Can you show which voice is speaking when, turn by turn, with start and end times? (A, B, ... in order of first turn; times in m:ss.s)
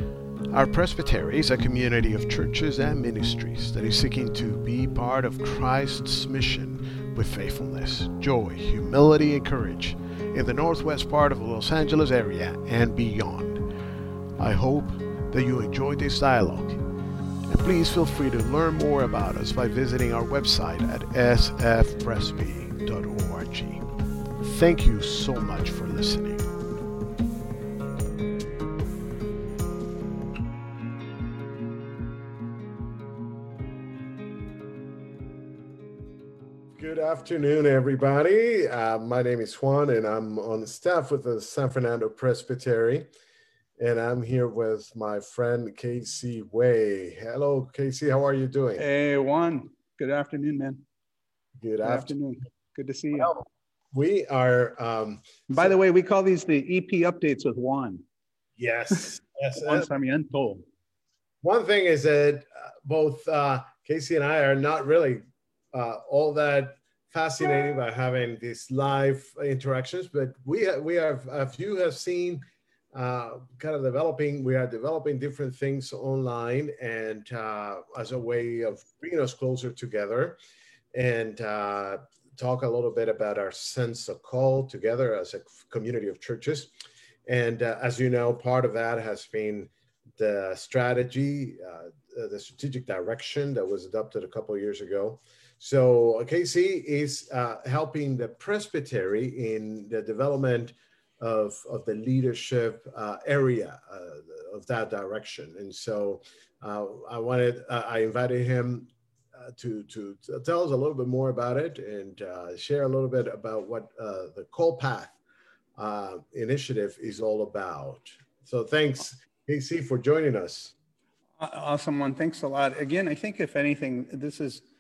0:00.5-0:13.6 A
0:14.4-0:16.8 A
0:17.5-0:23.8 A
0:24.4-0:26.4 A
0:36.8-0:43.1 A
0:43.8-0:48.8 A
0:48.8-0:50.8 B
0:51.6-0:52.2 A
0:51.8-0:53.3 B
0:53.2-0:55.8 A
0:55.5-0:58.0 B
0:58.6-0:59.9 A
0:59.6-1:00.6 B
1:01.4-1:05.2 A
1:05.7-1:12.4 A
1:12.9-1:20.4 A
1:20.9-1:26.7 A
1:27.3-1:55.2 A
1:55.8-2:00.7 A
2:01.4-2:04.7 B